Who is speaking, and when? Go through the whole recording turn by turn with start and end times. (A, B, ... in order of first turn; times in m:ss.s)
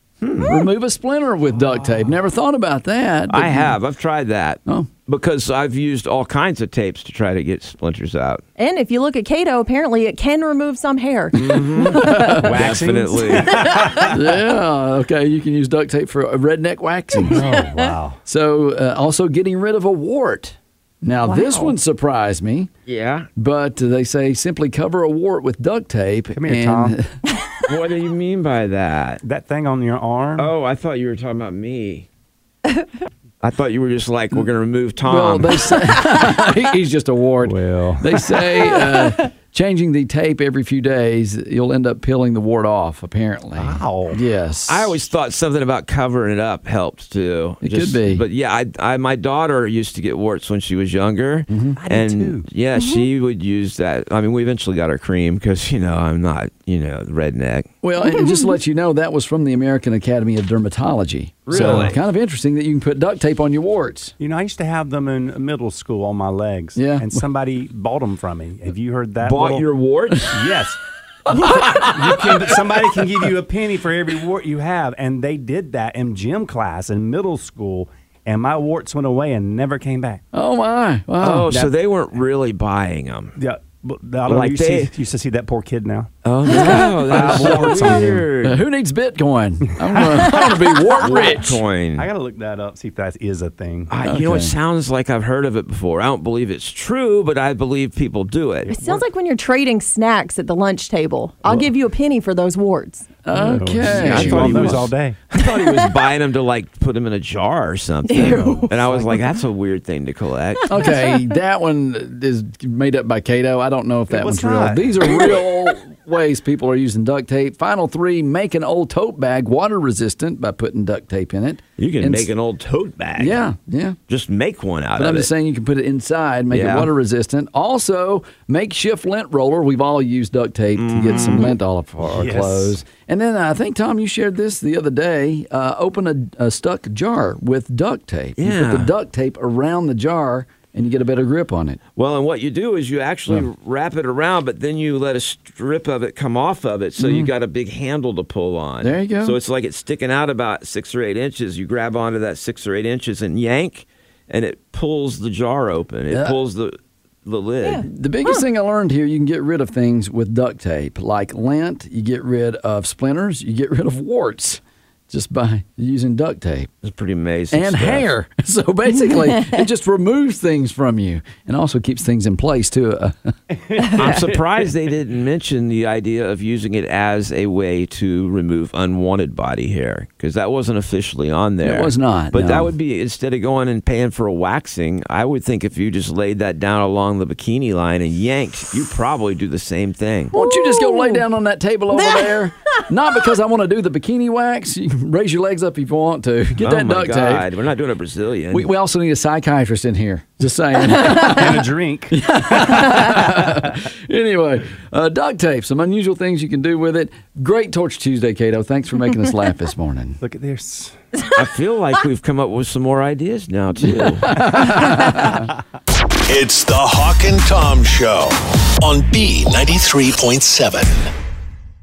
0:00.2-0:00.6 A
0:00.4-0:03.8 B
0:01.5-0:02.2 C
0:03.3-0:08.4 A
0:08.6-0:12.3 D
0:11.4-0:14.2 C
0:11.4-0:13.7 A
0:11.9-0:12.5 B
0:13.5-0:14.1 D
0:14.0-0:17.4 B
0:17.3-0:18.2 C
0:18.3-0:22.7 B
0:21.2-0:21.8 D
0:22.9-0:23.3 A
0:23.4-0:27.2 B
0:26.4-0:27.0 C
0:27.7-0:29.2 A
0:29.2-0:30.5 C
0:30.4-0:32.1 A
0:33.4-0:35.8 A
0:35.1-0:45.0 B
0:37.4-0:38.3 C
0:38.8-0:39.1 D
0:43.6-0:44.2 C
0:44.7-0:57.7 A
0:47.6-0:48.2 B
0:51.5-0:51.8 B
0:51.8-0:52.5 C
0:57.8-1:04.1 B
0:58.2-0:58.5 D
1:01.5-1:02.0 A
1:01.5-1:01.9 C
1:04.2-1:09.7 C
1:06.8-1:07.2 B
1:09.2-1:10.3 A
1:10.3-1:10.8 C
1:11.3-1:20.2 C
1:11.4-1:11.9 B
1:20.3-1:21.5 B
1:21.2-1:23.4 A
1:23.4-1:28.3 C
1:24.3-1:24.9 A
1:26.2-1:28.6 A
1:27.1-1:31.6 B
1:29.8-1:30.2 C
1:30.9-1:32.1 A
1:32.0-1:33.9 C
1:33.9-1:38.7 A
1:34.0-1:34.5 B
1:38.7-1:39.0 C
1:38.7-1:43.1 D
1:43.2-1:44.8 B
1:43.3-1:45.2 C
1:43.9-1:50.7 A
1:48.1-1:48.7 D
1:48.2-1:49.2 C
1:50.7-1:51.3 D
1:50.7-2:02.3 B
1:54.1-1:55.3 C
2:01.8-2:03.4 A
2:03.2-2:04.0 B
2:04.1-2:05.3 A
2:05.0-2:21.8 B
2:06.5-2:06.9 A
2:10.8-2:11.5 A
2:12.0-2:12.8 C
2:18.4-2:18.9 A
2:22.0-2:37.9 A
2:27.0-2:27.3 B
2:28.8-2:29.4 B
2:36.1-2:36.4 B
2:37.6-2:38.4 D
2:37.8-2:46.7 B
2:46.8-2:48.1 A
2:47.5-2:53.3 B
2:53.5-2:54.7 C
2:53.9-3:10.3 A
3:01.6-3:02.7 B
3:10.3-3:11.2 D
3:10.3-3:17.5 B
3:11.9-3:12.4 D
3:16.6-3:18.7 A
3:18.5-3:30.2 B
3:21.0-3:23.8 C
3:30.2-3:31.0 C
3:31.3-3:34.6 A
3:33.8-3:35.4 B
3:36.2-3:41.1 E